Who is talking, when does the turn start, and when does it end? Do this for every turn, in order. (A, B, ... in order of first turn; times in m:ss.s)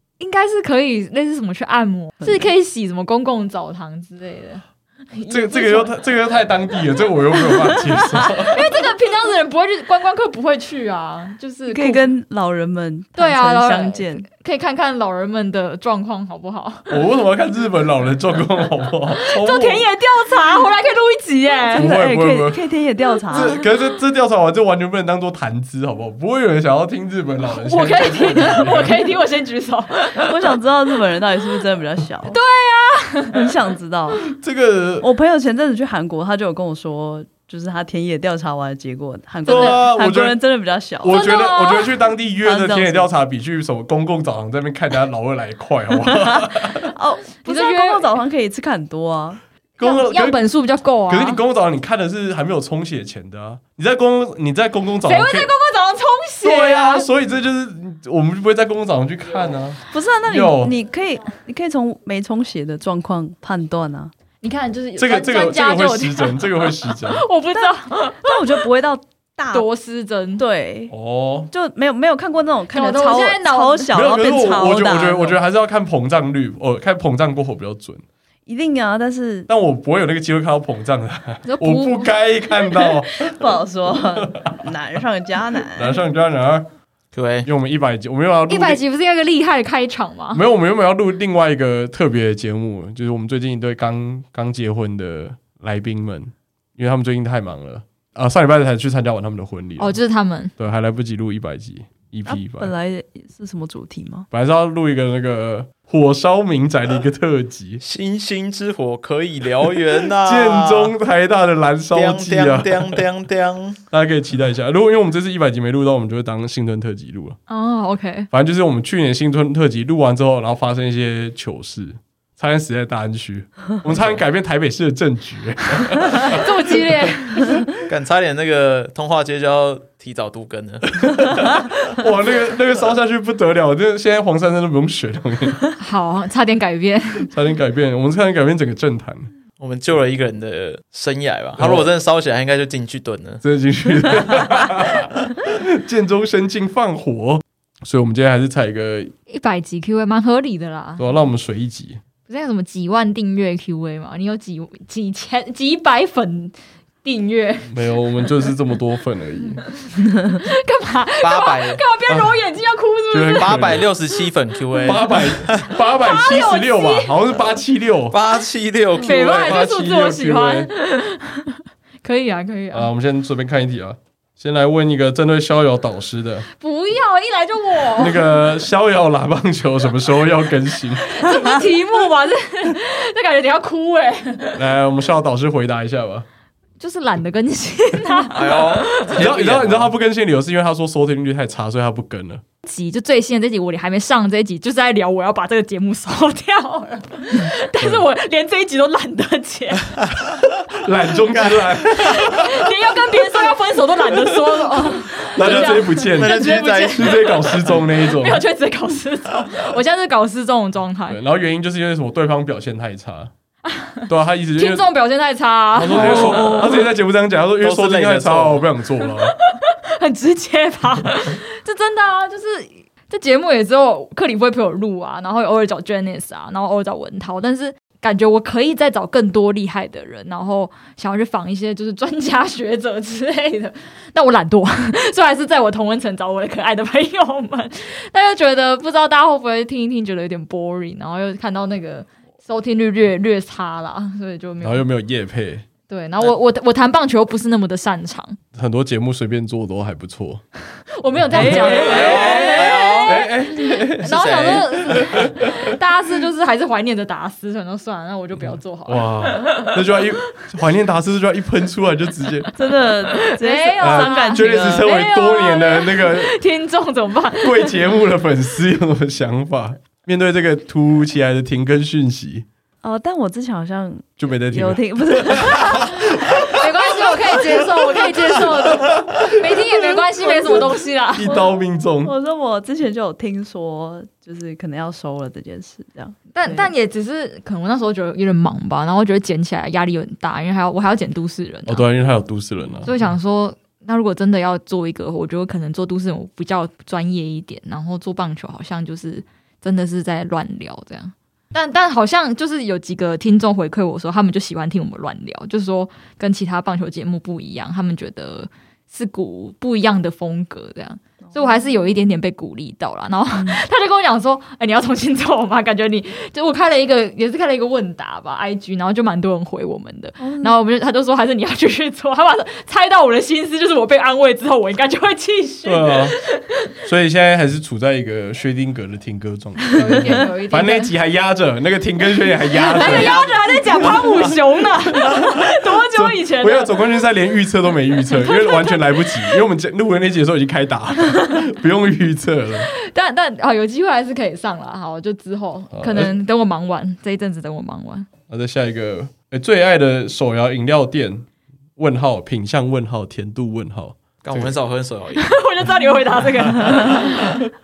0:00.2-0:05.9 A
0:02.2-0:02.5 B
0:05.3-0:08.6 C
0:08.4-0:12.1 A
0:11.7-0:14.3 B
0:13.2-0:17.0 A
0:16.9-0:19.9 C
0:19.2-0:21.9 A
0:21.7-0:23.6 B
0:21.7-0:22.6 C
0:23.3-0:29.0 C
0:23.3-0:23.6 A
0:27.5-0:30.5 A
0:30.2-0:32.4 B
0:32.3-0:33.4 A
0:33.3-0:34.3 B
0:34.2-0:35.1 C
0:35.0-0:41.2 B
0:39.4-0:40.4 C
0:39.5-0:39.8 A
0:41.0-0:46.9 C
0:41.1-0:42.0 A
0:42.4-0:43.1 B
0:46.1-0:49.4 B
0:47.4-0:48.1 A
0:49.8-0:51.4 A
0:49.8-0:50.4 C
0:51.1-0:55.5 C
0:55.0-0:57.1 A
0:56.4-1:00.8 C
0:59.9-1:04.1 B
1:04.4-1:08.7 A
1:05.0-1:07.3 C
1:07.5-1:09.7 B
1:09.5-1:10.4 A
1:10.4-1:10.9 B
1:10.9-1:11.5 C
1:11.5-1:15.4 B
1:12.7-1:14.0 A
1:13.9-1:18.0 C
1:18.5-1:19.5 B
1:19.5-1:23.3 C
1:21.5-1:22.1 A
1:23.2-1:26.0 B
1:24.2-1:24.6 C
1:25.7-1:26.7 C
1:27.1-1:27.5 D
1:27.4-1:28.8 C
1:28.5-1:30.4 A
1:30.3-1:40.0 C
1:39.8-1:40.5 A
1:40.6-1:42.7 C
1:42.3-1:44.3 B
1:44.3-1:47.8 C
1:47.8-1:50.9 D
1:50.2-1:53.0 C
1:51.9-1:53.8 D
1:53.9-1:57.4 C
1:57.5-1:58.3 A
1:58.3-2:06.7 C
2:03.9-2:04.2 D
2:06.1-2:07.7 A
2:07.8-2:11.4 D
2:11.0-2:15.6 C
2:15.8-2:17.3 A
2:17.3-2:19.3 C
2:19.6-2:23.4 D
2:21.6-2:21.9 C
2:23.4-2:29.1 C
2:29.3-2:31.1 A
2:31.0-2:32.0 C
2:32.3-2:37.8 A
2:37.7-2:39.6 C
2:39.8-2:43.8 A
2:41.2-2:41.8 D
2:42.1-2:42.4 C
2:43.1-2:43.9 C
2:43.4-2:45.7 D
2:44.8-2:48.2 C
2:45.9-2:47.1 A
2:48.1-2:49.6 D
2:49.0-2:52.9 A
2:49.1-2:50.7 C
2:52.7-2:56.5 C
2:56.6-2:58.4 A
2:58.0-3:01.3 C
3:01.0-3:04.6 A
3:04.6-3:06.3 C
3:06.8-3:09.2 A
3:08.3-3:09.9 D
3:09.1-3:12.4 C
3:12.6-3:20.1 A
3:17.8-3:18.1 C
3:20.8-3:22.7 C
3:21.9-3:31.2 A
3:24.2-3:28.4 C
3:25.4-3:27.7 D
3:31.1-3:33.3 C
3:33.6-3:36.8 A
3:34.1-3:34.9 C
3:35.8-3:39.4 C
3:35.9-3:36.7 D
3:37.6-3:38.7 D
3:39.2-4:04.9 A
4:04.6-4:05.6 C
4:05.9-4:08.4 A
4:08.6-4:10.4 C
4:10.9-4:19.8 A
4:11.2-4:15.8 C
4:11.3-4:12.8 B
4:11.7-4:13.3 D
4:13.8-4:15.2 D
4:18.4-4:22.5 C
4:22.6-4:24.9 B
4:23.1-4:27.8 A
4:23.8-4:26.4 C
4:27.4-4:32.5 C
4:32.8-4:38.5 B
4:34.2-4:35.9 C
4:36.3-4:41.3 A
4:40.2-4:46.7 B
4:41.2-4:42.1 C
4:46.3-4:51.9 A
4:51.7-4:52.9 C
4:52.8-5:26.7 A
5:11.2-5:11.7 B
5:13.3-5:13.6 B
5:20.2-5:20.5 B
5:25.6-5:26.2 C
5:26.8-5:33.2 C
5:29.7-5:30.9 A
5:32.5-5:36.9 A
5:32.8-5:33.9 D
5:33.8-5:34.2 C
5:35.9-5:42.7 C
5:38.1-5:39.4 A
5:42.6-5:48.1 A
5:45.7-5:46.1 C
5:48.3-5:54.6 C
5:54.2-5:55.3 D
5:55.2-5:57.4 A